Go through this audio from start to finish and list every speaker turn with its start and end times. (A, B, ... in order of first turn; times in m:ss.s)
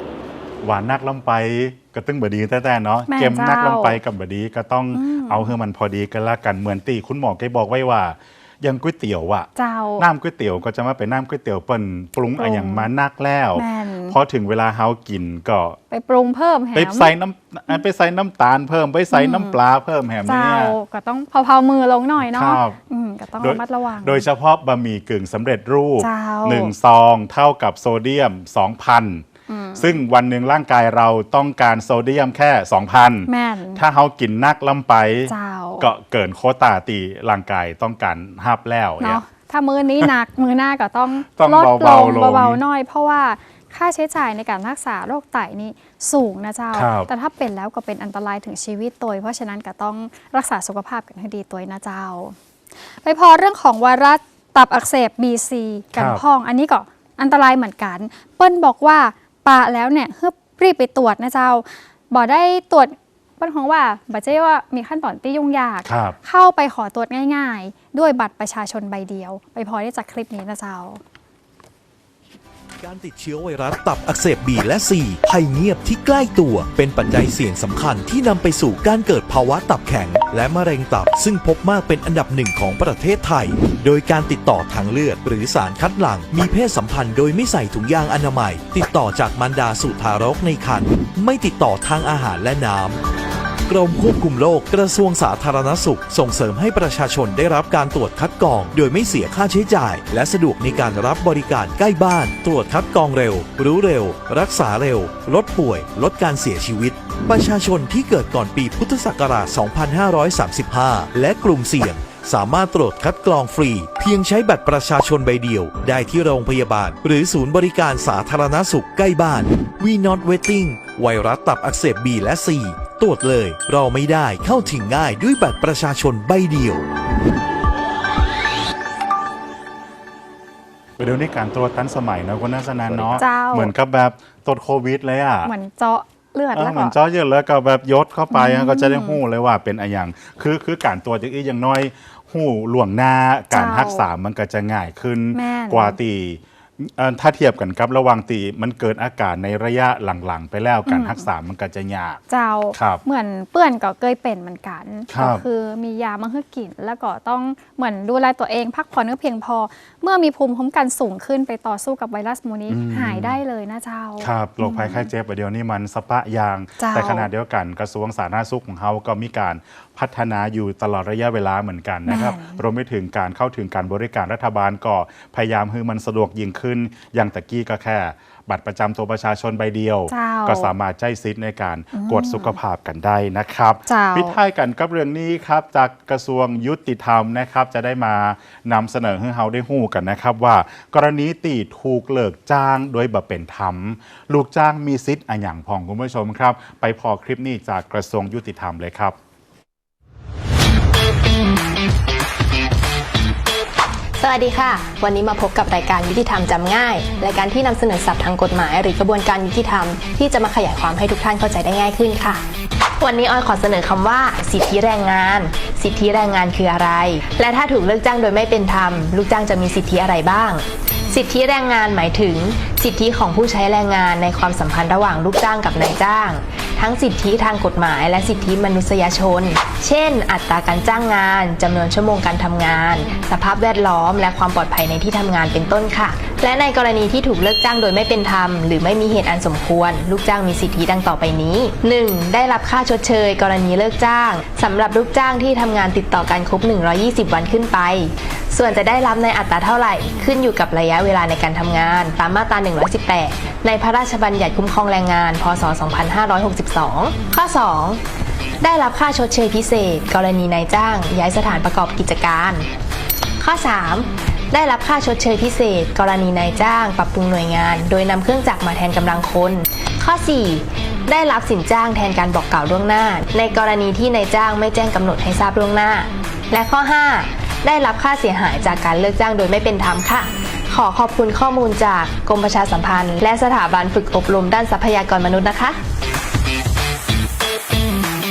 0:00.6-0:15.8 A
0:03.1-0:04.0 B
0:04.9-0:05.5 B
0:09.6-0:10.0 B
0:12.4-0:12.9 B
0:13.5-0:14.2 B
0:15.9-0:17.1 B
0:16.7-0:20.7 A
0:19.1-0:19.6 B
0:20.2-0:24.2 B
0:22.2-0:22.8 A
0:23.4-0:29.2 A
0:26.0-0:26.7 B
0:29.5-0:30.0 B
0:29.8-0:39.2 A
0:33.3-0:33.8 B
0:35.3-0:35.9 B
0:39.0-0:52.4 B
0:41.3-0:42.6 A
0:46.7-0:47.1 A
0:53.0-1:11.0 B
0:55.9-0:56.2 A
1:05.8-1:06.2 A
1:12.8-1:33.0 C
1:33.7-2:06.8 C
2:11.0-2:15.5 A
2:13.1-2:13.7 B
2:15.4-2:16.9 B
2:16.5-2:32.2 A
2:18.3-2:19.2 B
2:23.5-2:24.0 B
2:25.3-2:26.0 B
2:30.9-2:31.2 B
2:32.3-2:45.1 B
2:32.7-2:33.0 A
2:35.1-2:35.4 A
2:42.7-2:43.4 A
2:44.2-3:19.2 A
2:46.8-2:47.3 B
2:52.1-2:52.6 B
3:00.1-3:00.7 B
3:01.9-3:02.6 B
3:03.9-3:04.4 B
3:24.2-3:32.4 D
3:33.0-4:18.0 D
4:18.6-4:22.7 D
4:23.4-4:45.8 D